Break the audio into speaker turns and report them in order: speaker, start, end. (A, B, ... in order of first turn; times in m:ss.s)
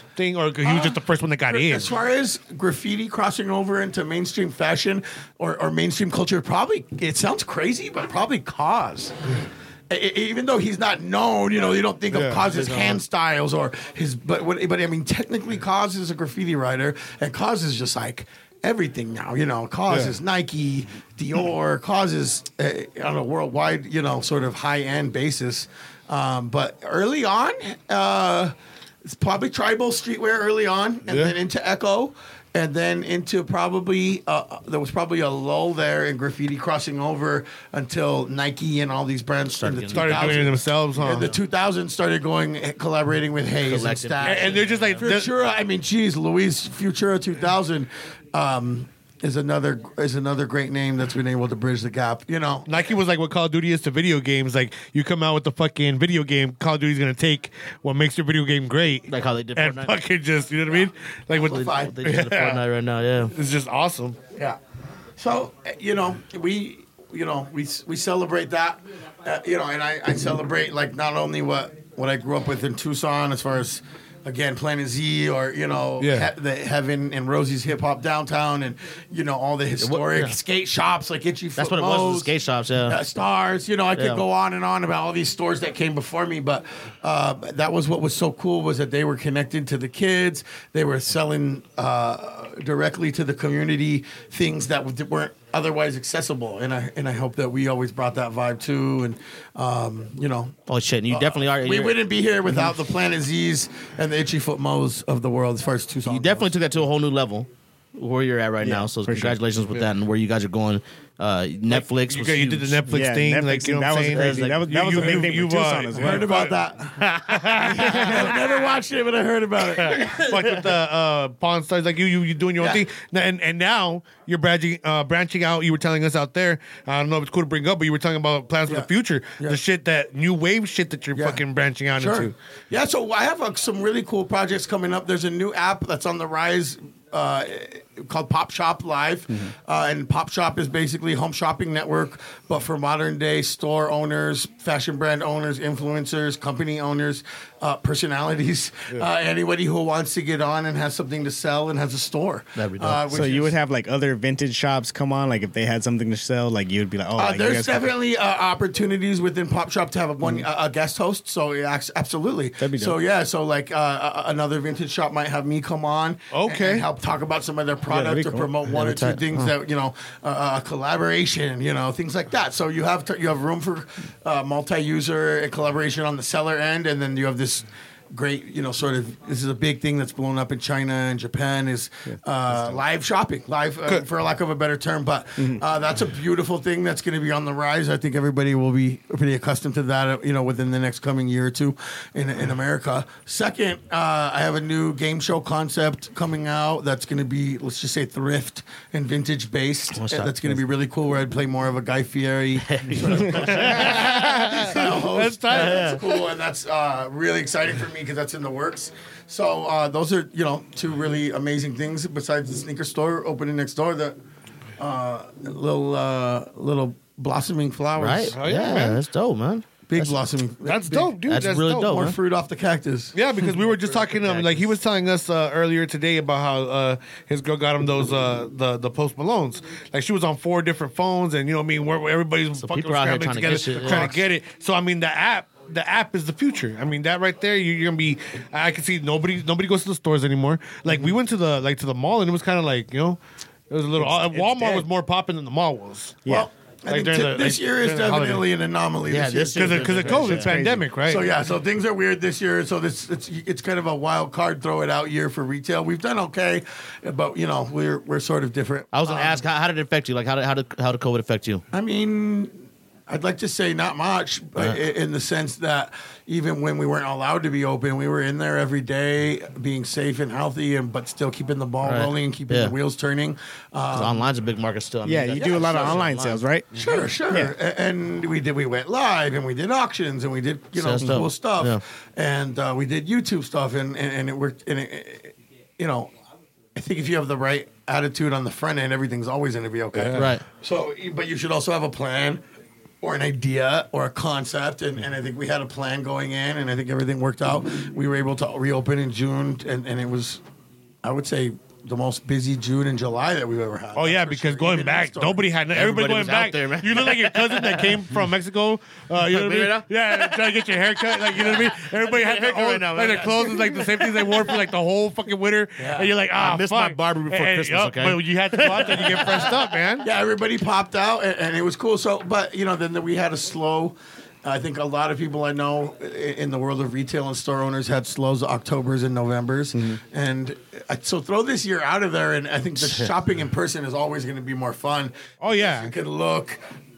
0:00.2-0:02.0 A
0:00.6-0:09.2 B
0:09.9-0:28.5 B
0:12.1-0:12.5 A
0:12.5-0:13.0 C
0:19.9-0:20.2 A
0:29.0-0:52.7 B
0:31.1-0:31.4 A
0:39.5-0:40.5 C
0:39.9-0:41.3 A
0:41.1-0:41.4 C
0:43.6-0:45.1 C
0:44.2-0:45.3 A
0:52.7-1:02.6 A
0:59.1-1:00.0 C
1:01.3-1:02.1 B
1:01.5-1:03.3 C
1:03.3-1:04.2 A
1:05.2-1:22.3 B
1:16.0-1:16.3 A
1:19.8-1:20.3 C
1:21.6-1:23.0 C
1:22.9-1:40.6 B
1:24.0-1:24.2 C
1:40.7-1:42.0 C
1:41.1-1:46.5 B
1:46.1-1:52.8 C
1:48.6-1:49.4 D
1:51.7-1:56.6 A
1:52.9-1:56.4 D
1:54.1-1:55.2 C
1:56.0-2:00.2 B
1:57.0-1:58.7 C
1:57.3-1:58.1 A
1:57.8-1:58.1 D
1:59.8-2:12.4 A
1:59.9-2:00.5 C
2:02.6-2:02.8 B
2:08.7-2:09.6 B
2:11.1-2:11.4 B
2:12.0-2:33.5 B
2:32.6-2:33.1 C
2:33.1-2:37.9 D
2:37.2-3:34.2 B
2:42.6-2:43.0 D
2:46.3-2:46.9 A
2:47.9-2:48.6 D
2:48.7-2:49.5 C
3:05.4-3:05.6 D
3:20.0-3:20.6 C
3:22.6-3:24.8 C
3:23.4-3:26.0 A
3:25.5-3:26.0 C
3:34.8-3:38.4 B
3:38.0-3:40.2 C
3:38.3-3:39.0 A
3:39.9-3:41.2 B
3:40.6-3:42.1 A
3:41.3-3:42.2 C
3:41.9-3:43.2 B
3:43.2-4:03.2 A
3:44.2-3:44.7 C
3:52.6-3:54.2 C
4:03.7-4:06.3 A
4:04.0-4:04.8 B
4:06.3-4:10.4 B
4:06.9-4:08.5 A
4:09.1-4:10.5 C
4:09.6-4:11.3 A
4:10.4-4:10.9 D
4:11.0-4:19.4 B
4:18.9-4:21.6 C
4:21.7-4:34.2 B
4:31.8-4:32.8 C
4:33.9-4:36.4 C
4:35.0-4:36.8 D
4:35.4-4:36.0 B
4:36.8-4:46.1 B
4:37.3-4:37.6 D
4:40.8-4:41.8 C
4:46.8-4:52.4 B
4:49.9-4:50.3 A
4:50.1-4:50.4 C
4:53.0-5:00.4 B
5:01.0-5:05.5 B
5:04.0-5:20.1 A
5:05.7-5:08.0 C
5:09.2-5:10.4 C
5:11.1-5:14.5 C
5:15.8-5:19.6 C
5:20.0-5:36.6 B
5:32.8-5:33.1 C
5:35.4-5:35.9 A